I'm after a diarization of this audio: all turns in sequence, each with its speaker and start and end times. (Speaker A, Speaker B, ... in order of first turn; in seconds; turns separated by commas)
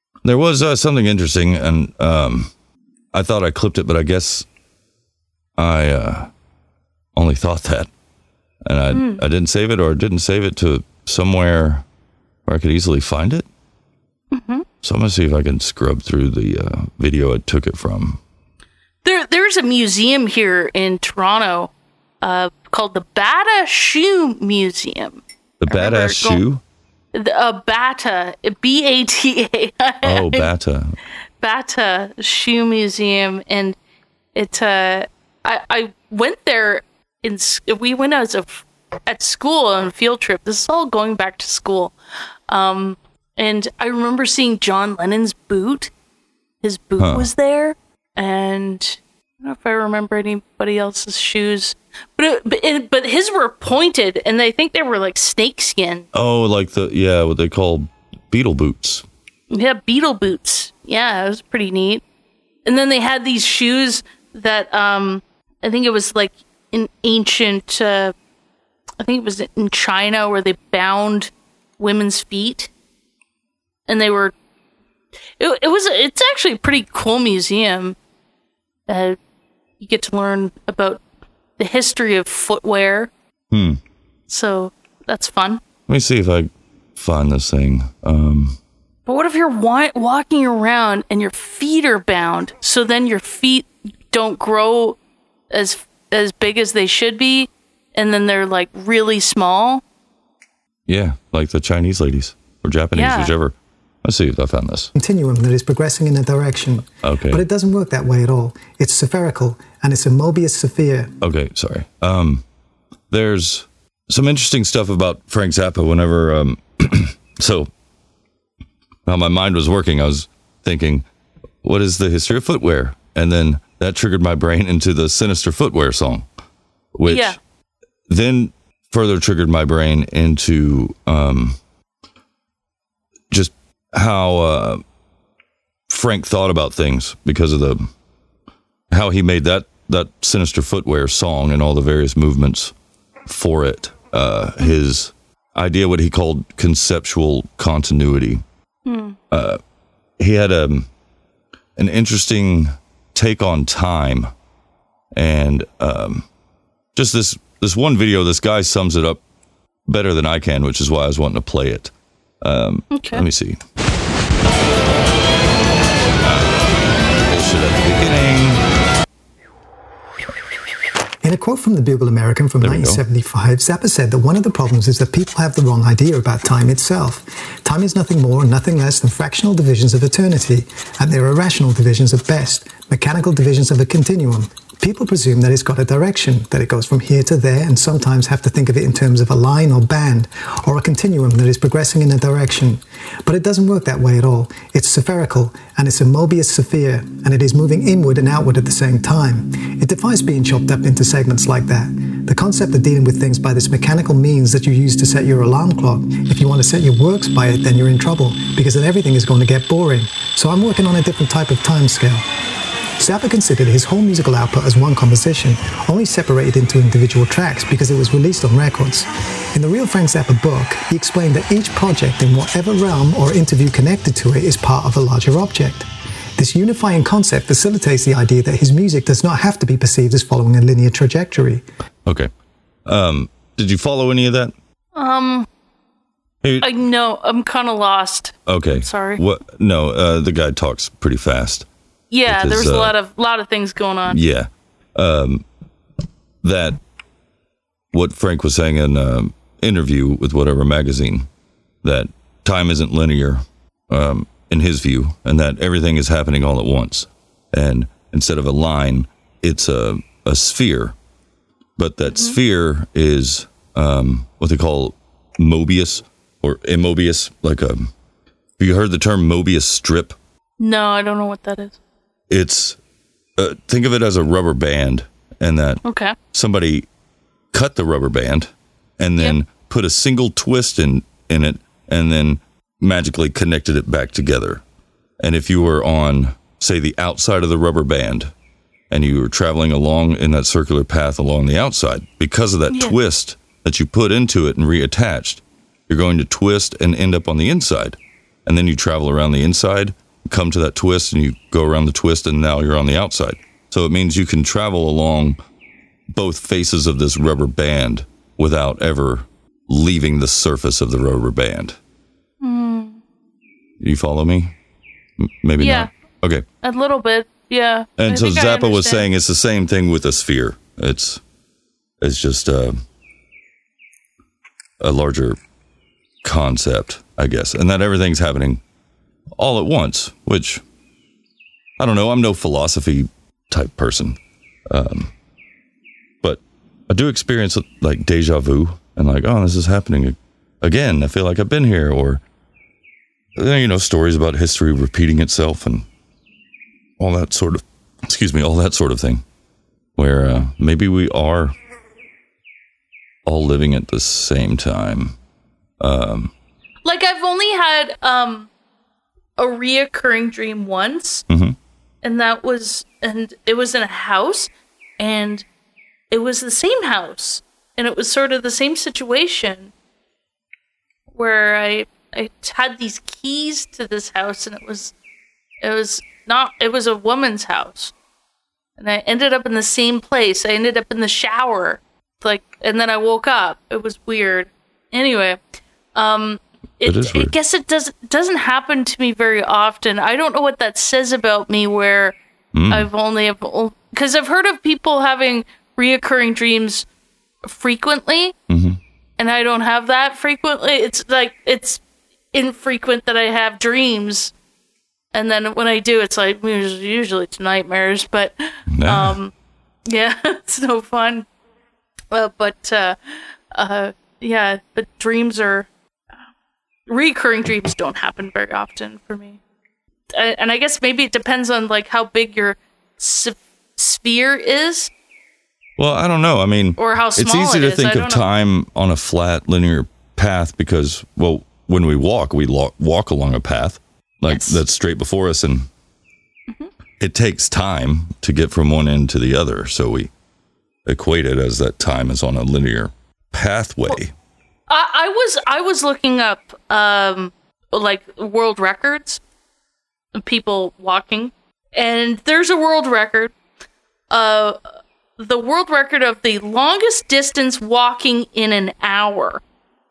Speaker A: 0.2-2.5, Speaker A: 3.1-4.5, Speaker A: 5.6-6.3, Speaker A: 7.2-7.9, Speaker A: 8.7-11.8, Speaker B: 8.9-9.2, Speaker A: 12.5-13.5, Speaker B: 14.3-14.7, Speaker A: 14.8-18.2, Speaker B: 19.0-26.4, Speaker A: 25.6-26.6, Speaker B: 27.1-30.5, Speaker A: 30.0-31.0, Speaker B: 31.4-33.8, Speaker B: 34.4-42.0, Speaker B: 42.5-45.9, Speaker B: 46.6-56.1, Speaker A: 47.0-47.3, Speaker A: 56.1-59.0, Speaker B: 59.5-62.0, Speaker B: 62.7-68.1, Speaker B: 69.0-72.7, Speaker B: 73.9-74.3, Speaker B: 75.4-78.0, Speaker B: 78.9-79.2, Speaker B: 79.8-81.0, Speaker B: 81.6-83.1, Speaker A: 83.5-83.8, Speaker B: 84.3-85.6, Speaker A: 85.9-88.6, Speaker B: 89.1-95.0, Speaker B: 95.5-99.8, Speaker A: 100.9-104.9, Speaker B: 102.9-103.3, Speaker C: 105.0-111.1, Speaker A: 107.0-107.5, Speaker A: 111.2-112.4, Speaker A: 113.1-117.7, Speaker A: 119.1-121.0, Speaker A: 121.6-126.3, Speaker A: 127.0-127.4, Speaker B: 127.1-127.4, Speaker A: 128.1-131.6, Speaker A: 133.3-134.8, Speaker A: 135.9-137.9, Speaker A: 138.9-142.7, Speaker A: 143.3-148.4, Speaker B: 148.9-149.2, Speaker A: 149.3-149.6, Speaker A: 150.2-150.9, Speaker A: 151.8-154.3, Speaker A: 155.1-156.2, Speaker A: 156.9-159.2, Speaker A: 159.9-161.9, Speaker A: 162.4-163.6, Speaker B: 162.9-163.2, Speaker A: 166.2-166.7, Speaker A: 167.3-168.6, Speaker C: 171.2-212.2, Speaker A: 172.6-173.0, Speaker C: 213.0-231.6, Speaker A: 232.9-234.5, Speaker B: 234.9-235.5, Speaker A: 236.4-236.7, Speaker B: 236.6-239.2, Speaker A: 238.5-241.7, Speaker B: 242.1-244.2, Speaker A: 242.3-242.9, Speaker A: 244.1-245.4, Speaker A: 246.4-246.8, Speaker A: 247.9-251.3, Speaker A: 251.8-260.9, Speaker A: 261.8-267.9, Speaker B: 262.1-262.4, Speaker A: 268.6-270.2, Speaker B: 270.6-271.8, Speaker A: 272.3-272.8, Speaker A: 273.4-275.8, Speaker B: 275.8-276.1, Speaker A: 276.3-276.9, Speaker A: 277.5-284.6, Speaker A: 285.2-288.3, Speaker A: 288.9-305.4, Speaker B: 292.7-292.9, Speaker A: 306.1-311.8, Speaker B: 312.4-313.0, Speaker A: 313.8-314.5, Speaker A: 315.2-316.4, Speaker B: 315.6-315.9, Speaker B: 316.6-319.1, Speaker A: 318.0-321.2, Speaker A: 322.0-322.8, Speaker A: 324.8-325.4, Speaker A: 326.2-328.6, Speaker A: 329.4-330.6, Speaker A: 331.8-334.2, Speaker A: 334.7-335.1, Speaker A: 336.2-342.2, Speaker A: 343.4-345.9, Speaker A: 347.0-349.2, Speaker A: 350.0-351.5, Speaker A: 353.3-355.1, Speaker A: 355.8-356.3, Speaker B: 356.9-358.5, Speaker B: 359.4-361.2, Speaker A: 361.3-361.6, Speaker B: 362.0-365.5, Speaker B: 366.1-369.7, Speaker B: 371.1-374.9, Speaker B: 375.6-377.9, Speaker B: 378.8-385.4, Speaker B: 385.9-392.2, Speaker A: 386.8-387.3, Speaker A: 392.5-392.9, Speaker B: 392.7-396.9, Speaker B: 397.4-398.4, Speaker A: 398.5-398.8, Speaker B: 399.2-401.8, Speaker B: 402.3-404.3, Speaker B: 405.1-409.3, Speaker A: 408.7-409.1, Speaker B: 409.9-411.3, Speaker B: 412.1-413.0, Speaker B: 413.5-415.7, Speaker B: 416.9-419.4, Speaker B: 420.1-424.9, Speaker A: 425.8-435.7, Speaker B: 426.8-428.2, Speaker B: 434.3-434.6, Speaker A: 437.0-440.1, Speaker A: 440.9-444.1, Speaker B: 444.7-449.2, Speaker B: 450.1-453.3, Speaker B: 454.1-454.6, Speaker B: 455.2-459.4